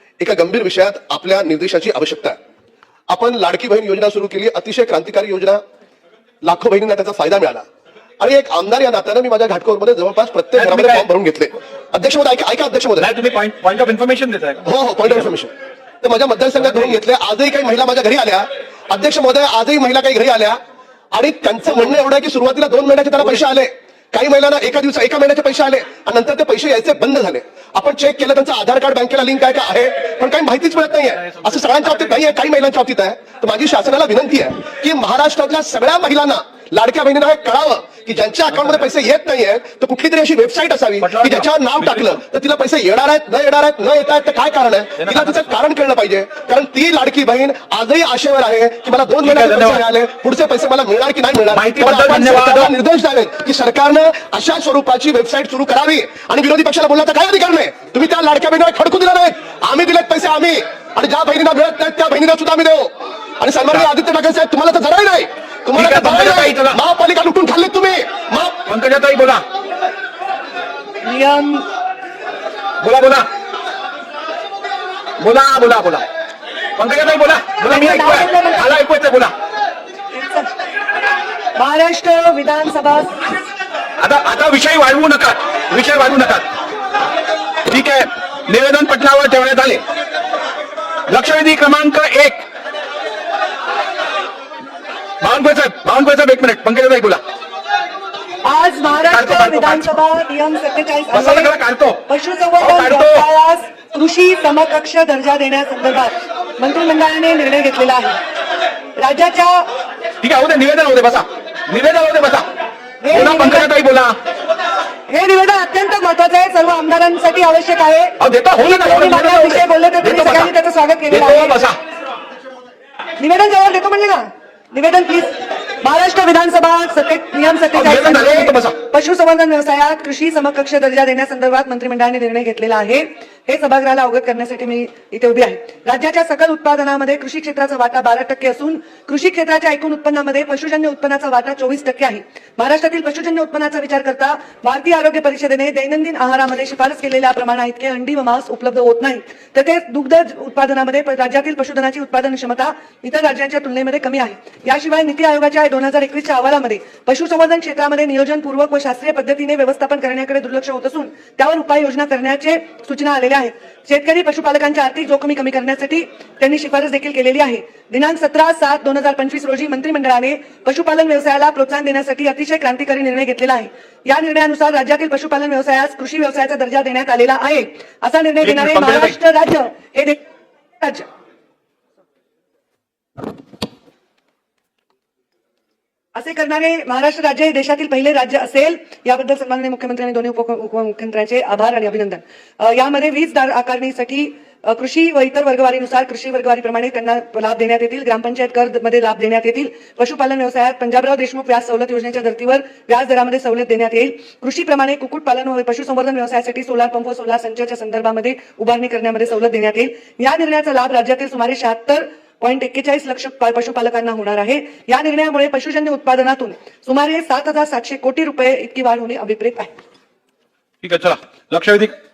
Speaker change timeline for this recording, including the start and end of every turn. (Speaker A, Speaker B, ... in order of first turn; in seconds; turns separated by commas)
Speaker A: 0.2-2.4, Speaker A: 3.1-5.6, Speaker A: 6.4-7.6, Speaker A: 8.2-13.1, Speaker B: 10.6-11.0, Speaker B: 13.0-14.6, Speaker A: 14.6-20.6, Speaker A: 21.1-68.6, Speaker B: 41.0-42.2, Speaker B: 45.0-45.5, Speaker B: 49.2-49.8, Speaker B: 51.5-52.7, Speaker B: 65.8-66.8, Speaker B: 68.7-69.4, Speaker C: 71.0-71.6, Speaker B: 72.8-73.3, Speaker B: 75.2-76.0, Speaker B: 76.8-79.3, Speaker C: 77.6-78.7, Speaker C: 80.1-80.5, Speaker C: 81.6-83.2, Speaker B: 84.0-86.5, Speaker B: 87.7-89.8, Speaker B: 91.1-92.4, Speaker B: 95.2-97.2, Speaker C: 98.4-101.5, Speaker B: 99.0-100.0, Speaker B: 101.1-102.0, Speaker C: 102.1-108.2, Speaker B: 102.6-103.2, Speaker C: 109.0-109.6, Speaker B: 110.2-112.5, Speaker C: 113.0-113.7, Speaker B: 113.1-114.2, Speaker C: 115.1-121.6, Speaker B: 118.2-120.5, Speaker B: 121.1-121.8, Speaker C: 123.2-180.2, Speaker B: 127.7-128.8, Speaker B: 178.4-179.2, Speaker C: 180.8-181.1, Speaker C: 186.1-219.7, Speaker B: 220.8-221.9